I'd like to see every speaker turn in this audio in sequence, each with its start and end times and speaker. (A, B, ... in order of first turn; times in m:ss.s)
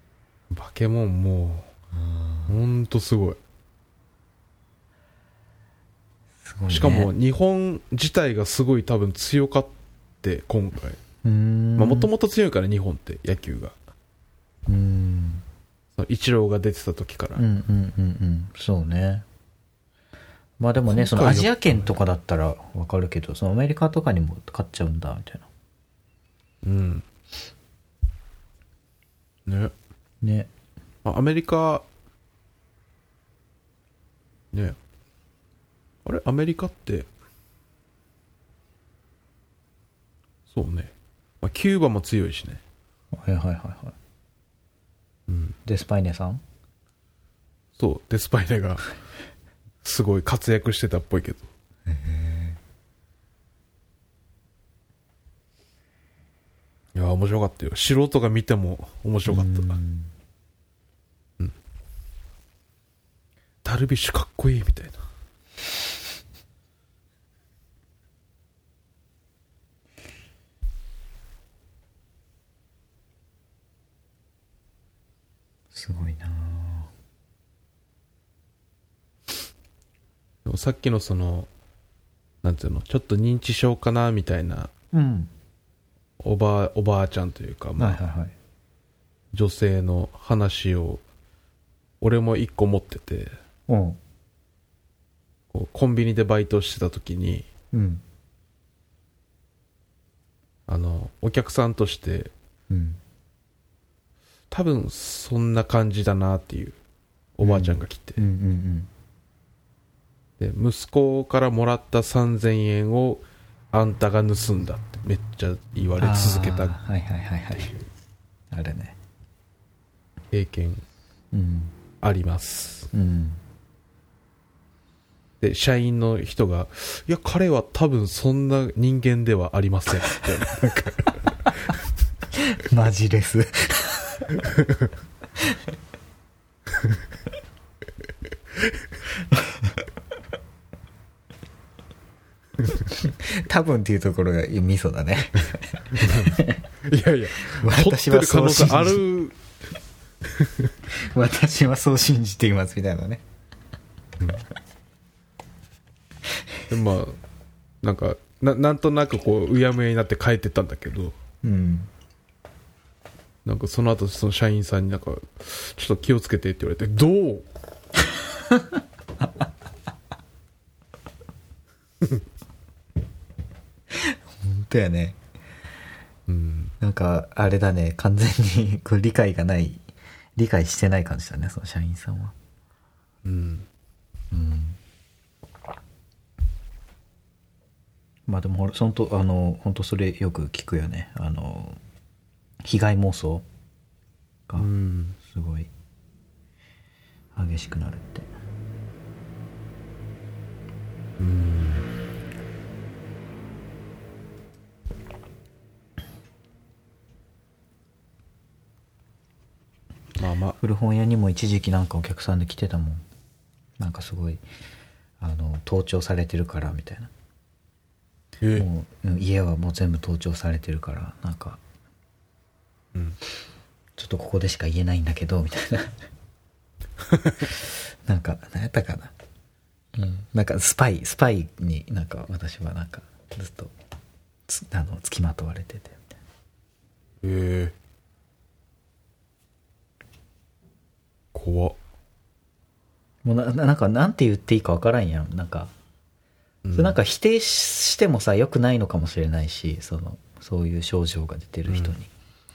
0:00.5-0:01.7 A
0:01.9-0:02.6 B
0:02.5-0:03.4 A
0:06.4-0:07.1 B
0:06.7-0:11.0 A
0:11.2-0:12.1 B
0:11.8-0:13.7 A
0:14.7-0:15.4 B
0:16.0-0:17.4 A
0:17.4-0:19.2 B
0:20.6-0:25.5 B
0:20.9-0:21.8 A
0:26.6-0:27.0 A
0:29.5-0:29.7 A
0:30.2-0:30.5 B
0:31.0-0:31.8 A
0:36.0-0:37.1 A
0:40.5-0:42.6 A
0:43.1-0:44.0 B
0:45.3-0:45.6 A
0:45.6-0:46.4 B
0:47.8-0:48.8 A
0:49.8-0:51.4 A
0:51.9-0:52.6 B
0:56.9-0:59.8 A
0:59.2-1:00.1 B
1:03.6-1:05.0 A
1:15.7-1:16.9 B
1:20.4-1:21.5 A
1:22.4-1:24.7 A
1:24.9-1:25.3 B
1:26.2-1:28.0 A
1:27.8-1:28.3 B
1:29.3-1:31.0 A
1:32.0-1:33.3 A
1:33.7-1:34.0 B
1:35.5-1:37.5 A
1:37.7-1:38.0 B
1:40.7-1:42.3 A
1:42.7-1:43.0 B
1:44.5-1:46.8 A
1:47.4-1:48.2 A
1:47.4-1:48.9 B
1:50.4-1:56.8 A
1:56.0-1:57.8 B
1:58.5-1:59.0 B
2:00.3-2:00.8 A
2:01.3-2:01.7 B
2:02.0-2:02.9 A
2:02.9-2:03.4 B
2:05.4-2:11.2 A
2:12.4-2:14.4 B
2:22.9-2:26.6 B
2:26.0-2:26.3 A
2:26.8-2:29.4 A
2:27.5-2:29.0 B
2:30.3-2:30.7 A
2:31.1-2:33.2 B
2:36.7-2:37.2 A
2:37.8-2:41.1 A
2:41.4-2:41.9 B
2:43.4-2:47.4 A
2:53.9-2:55.2 B
2:56.3-2:56.7 A
2:56.8-2:59.8 B
3:00.4-3:02.3 B
3:03.2-3:03.7 A
3:04.3-3:04.8 B
3:08.3-3:11.8 B
3:12.6-3:13.4 B
3:14.5-3:15.7 B
3:14.6-3:15.2 A
3:17.3-3:18.3 B
3:21.2-3:21.9 A
3:30.2-3:30.6 A
3:30.6-3:33.0 B
3:33.8-3:34.4 B
3:35.2-3:37.1 B
3:38.6-3:41.6 B
3:44.0-3:46.0 B
3:47.4-3:49.1 B
3:49.9-3:53.7 B
3:54.5-3:56.1 B
3:57.2-3:57.7 A
4:01.3-4:01.8 A
4:03.2-4:05.7 B
4:06.6-4:07.0 A
4:06.7-4:12.1 B
4:11.7-4:11.9 A